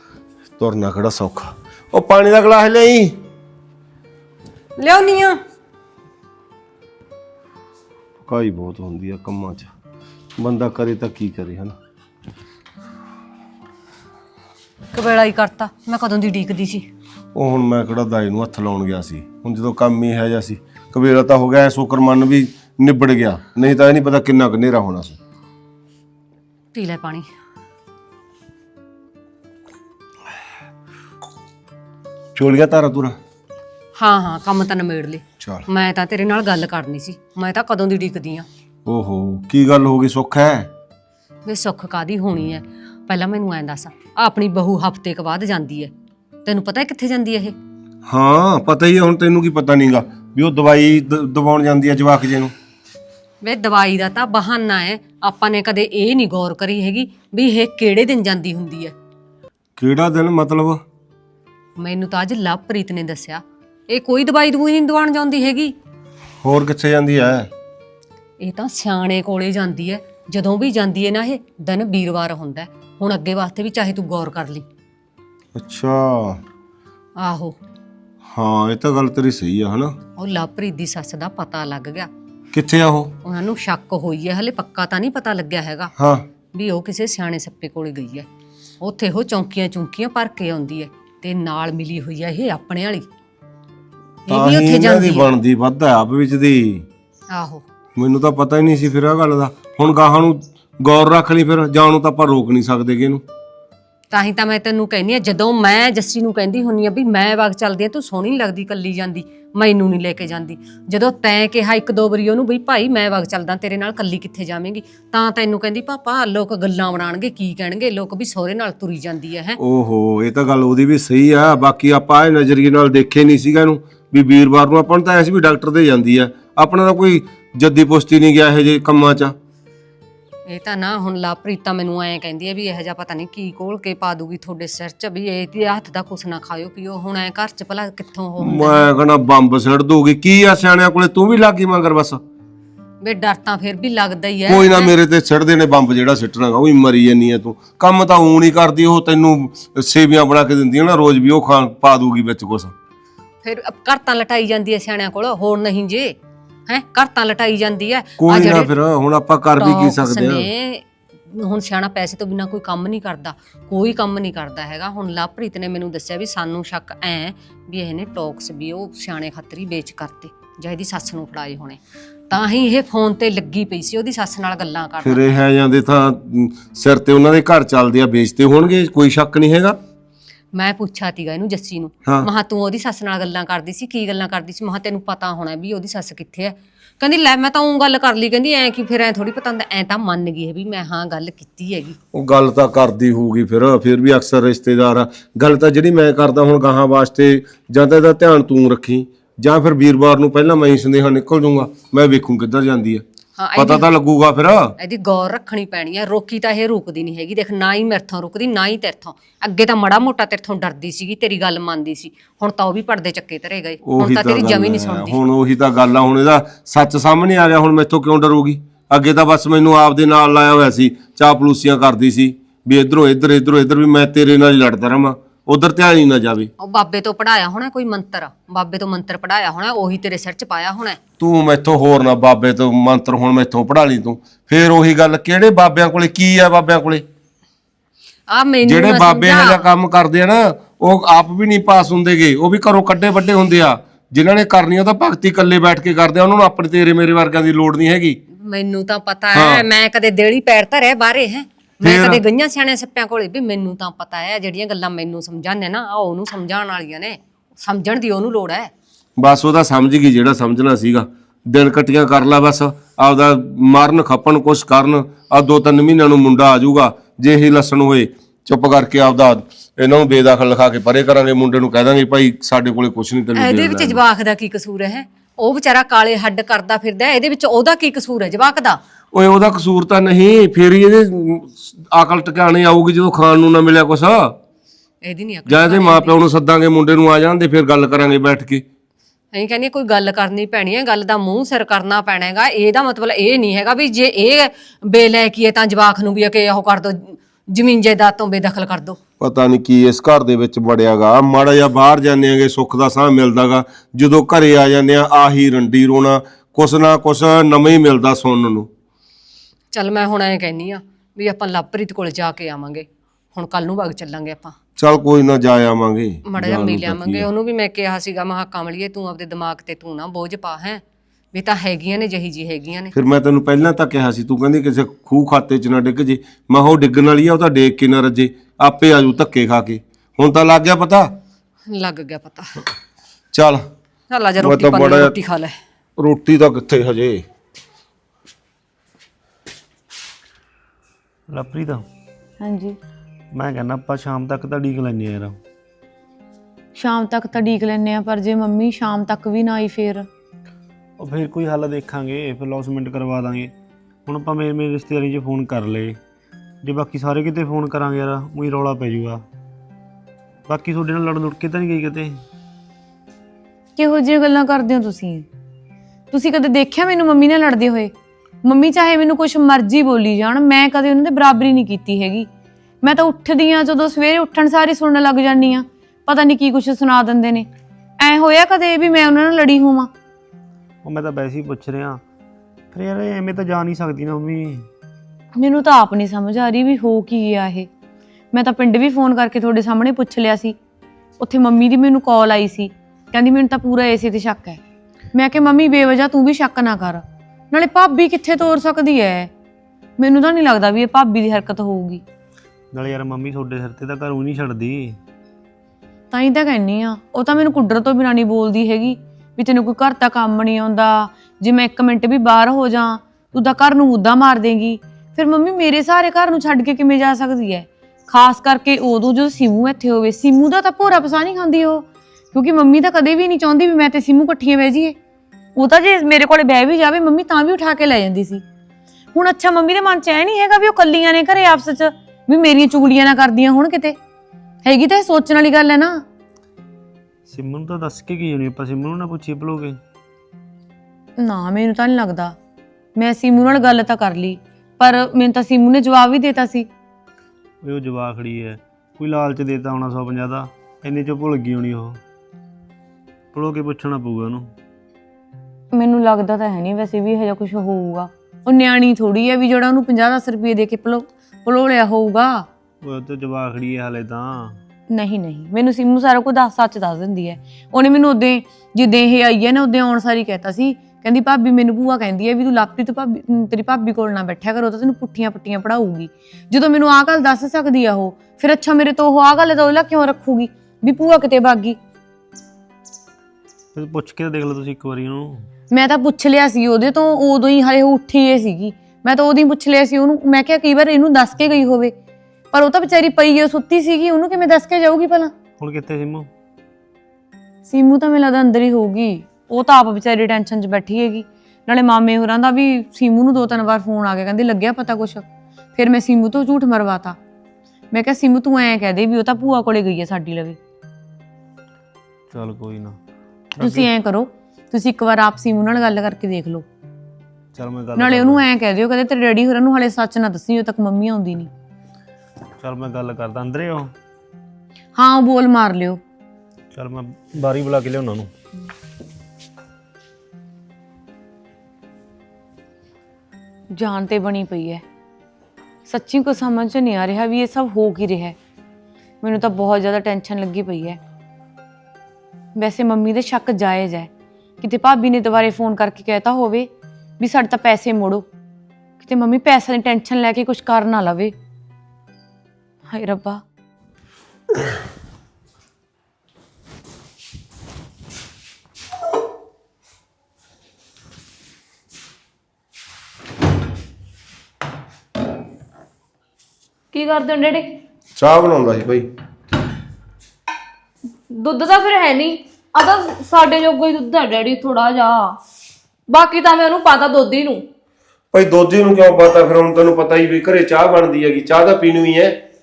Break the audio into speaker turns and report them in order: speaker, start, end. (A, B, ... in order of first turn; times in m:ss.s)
0:00.6-0:03.2 A
0:04.8-0:05.4 B
0:08.2-0:09.7 A
0:10.4-0:11.7 A
0:14.9-0:16.9 B
0:17.3-0:25.2 A
0:26.7-0:27.3 B
0:32.3-0:33.2 A
0:34.0-0:38.5 B
0:35.4-0:35.6 A
0:38.8-0:40.7 A
0:41.4-0:45.9 B
0:46.4-0:47.5 B
0:48.1-0:52.5 A
0:53.4-0:58.9 B
0:59.8-1:00.8 A
1:01.8-1:05.7 B
1:06.4-1:07.5 A
1:08.4-1:14.6 B
1:15.5-1:16.4 A
1:17.2-1:17.6 B
1:18.2-1:20.0 A
1:20.2-1:22.1 B
1:22.5-1:23.1 A
1:23.2-1:25.9 B
1:26.0-1:26.2 A
1:26.5-1:28.3 B
1:28.8-1:33.1 B
1:34.2-1:35.3 B
1:34.3-1:36.8 A
1:37.3-1:37.6 B
1:38.0-1:43.2 A
1:44.1-1:59.6 B
1:59.6-2:09.4 A
2:10.5-2:18.9 B
2:18.4-2:22.2 A
2:23.0-2:24.9 B
2:24.5-2:32.7 A
2:33.4-2:36.1 B
2:36.7-2:38.7 B
2:38.2-2:40.5 A
2:39.6-2:51.8 B
2:52.3-2:55.4 B
2:55.0-2:59.8 A
3:00.5-3:12.0 B
3:12.1-3:23.0 A
3:23.4-3:23.9 B
3:23.6-3:24.7 A
3:24.8-3:35.2 B
3:33.8-3:46.5 A
3:46.6-3:51.0 B
3:51.2-3:57.0 A
3:58.3-3:59.7 B
3:58.6-4:08.2 A
4:08.3-4:18.7 B
4:09.3-4:09.6 A
4:11.8-4:12.2 A
4:19.2-4:34.0 A
4:33.4-4:38.8 B
4:39.1-4:44.4 A
4:45.0-4:46.2 B
4:45.4-4:48.6 A
4:49.3-4:59.0 B
4:59.2-5:08.7 A
5:09.7-5:14.6 B
5:14.8-5:17.3 A
5:16.2-5:22.9 B
5:22.9-5:31.1 A
5:31.7-5:32.5 B
5:33.3-5:33.7 A
5:34.1-5:35.6 B
5:34.4-5:35.2 A
5:36.0-5:37.2 A
5:41.3-5:41.8 C
5:42.4-5:42.8 D
5:43.3-5:45.4 C
5:46.7-5:50.1 D
5:51.0-5:53.5 C
5:54.0-5:56.0 C
5:56.6-5:59.2 C
6:00.5-6:02.2 C
6:03.8-6:05.2 D
6:06.1-6:07.9 D
6:08.4-6:12.3 D
6:12.8-6:17.5 D
6:18.0-6:19.9 D
6:20.8-6:22.0 C
6:22.7-6:24.7 C
6:25.4-6:27.7 D
6:28.3-6:30.6 D
6:31.2-6:34.6 D
6:35.1-6:39.3 D
6:40.0-6:42.0 D
6:42.7-6:45.0 C
6:46.1-7:05.0 D
7:05.6-7:08.4 D
7:09.1-7:14.0 D
7:14.6-7:16.0 D
7:17.3-7:19.8 C
7:21.2-7:22.4 D
7:23.0-7:26.7 D
7:27.6-7:32.0 C
7:33.3-7:34.5 C
7:35.7-7:42.5 D
7:42.8-7:44.6 C
7:44.9-8:01.8 D
8:03.7-8:05.5 C
8:05.7-8:11.9 D
8:12.5-8:15.3 D
8:15.6-8:16.3 C
8:17.7-8:27.2 D
8:27.9-8:30.6 D
8:32.3-8:33.0 C
8:33.5-8:33.9 C
8:33.6-8:36.6 D
8:37.5-8:38.4 C
8:38.0-8:41.5 D
8:42.6-8:43.9 C
8:44.9-8:46.0 D
8:46.7-8:48.3 C
8:53.7-8:54.8 D
8:55.9-8:58.4 D
8:59.2-9:01.0 D
9:02.5-9:04.1 D
9:04.6-9:08.3 D
9:09.0-9:11.3 D
9:12.9-9:13.4 D
9:26.9-9:27.8 E
9:28.2-9:29.1 A
9:31.3-9:35.4 E
9:36.1-9:37.6 E
9:38.3-9:42.4 A